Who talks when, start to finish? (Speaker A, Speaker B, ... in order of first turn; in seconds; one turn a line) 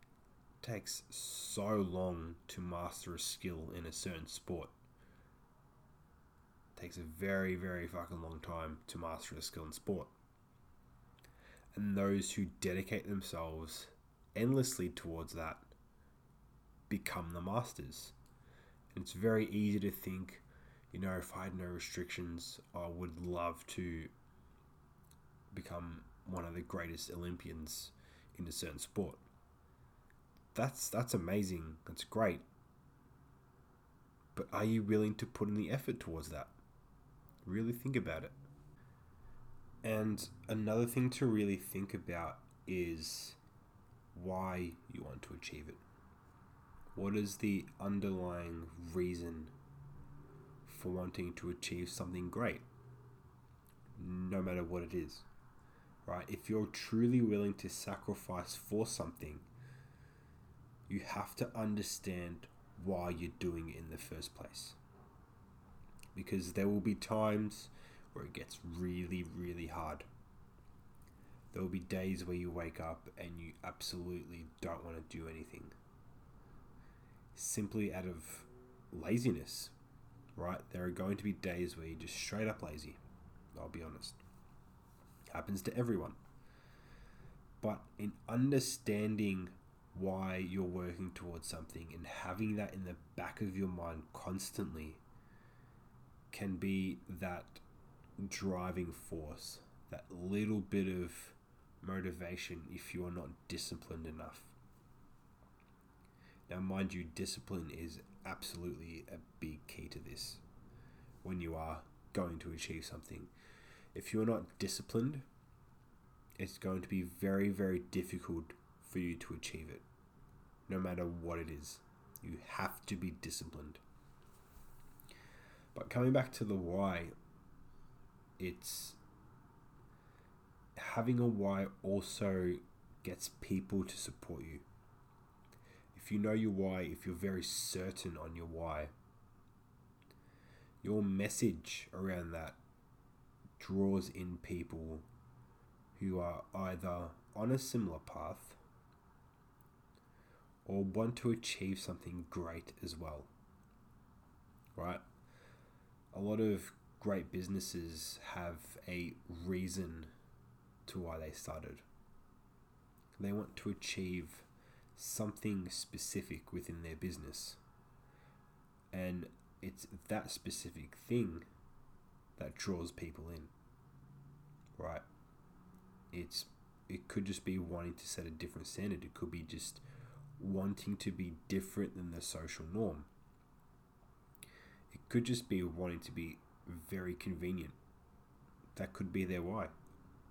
Speaker A: 0.6-4.7
Speaker A: 6.8-10.1
Speaker A: 11.7-15.7
Speaker A: 16.9-18.1
Speaker A: 18.9-24.1
Speaker A: 25.5-29.2
Speaker A: 30.5-32.4
Speaker A: 34.3-36.5
Speaker A: 37.4-38.3
Speaker A: 39.8-43.4
Speaker A: 44.1-45.8
Speaker A: 46.9-49.5
Speaker A: 50.6-52.6
Speaker A: 54.0-55.2
Speaker A: 56.0-59.5
Speaker A: 60.9-64.8
Speaker A: 66.1-70.0
Speaker A: 71.5-75.7
Speaker A: 77.3-79.7
Speaker A: 80.3-83.0
Speaker A: 83.5-84.2
Speaker A: 85.3-86.2
Speaker A: 87.6-95.0
Speaker A: 96.3-97.6
Speaker A: 98.2-104.5
Speaker A: 106.5-110.4
Speaker A: 111.2-113.3
Speaker A: 113.9-115.2
Speaker A: 116.4-119.8
Speaker A: 120.7-123.8
Speaker A: 125.7-127.1
Speaker A: 128.4-129.0
Speaker A: 130.8-134.7
Speaker A: 135.9-138.9
Speaker A: 140.8-142.6
Speaker A: 143.6-145.1
Speaker A: 145.9-148.6
Speaker A: 150.7-153.3
Speaker A: 154.8-155.0
Speaker A: 156.1-160.1
Speaker A: 160.8-161.8
Speaker A: 163.2-167.6
Speaker A: 168.9-171.4
Speaker A: 172.4-173.5
Speaker A: 174.8-175.0
Speaker A: 176.1-179.8
Speaker A: 180.4-183.1
Speaker A: 184.9-187.8
Speaker A: 188.7-189.7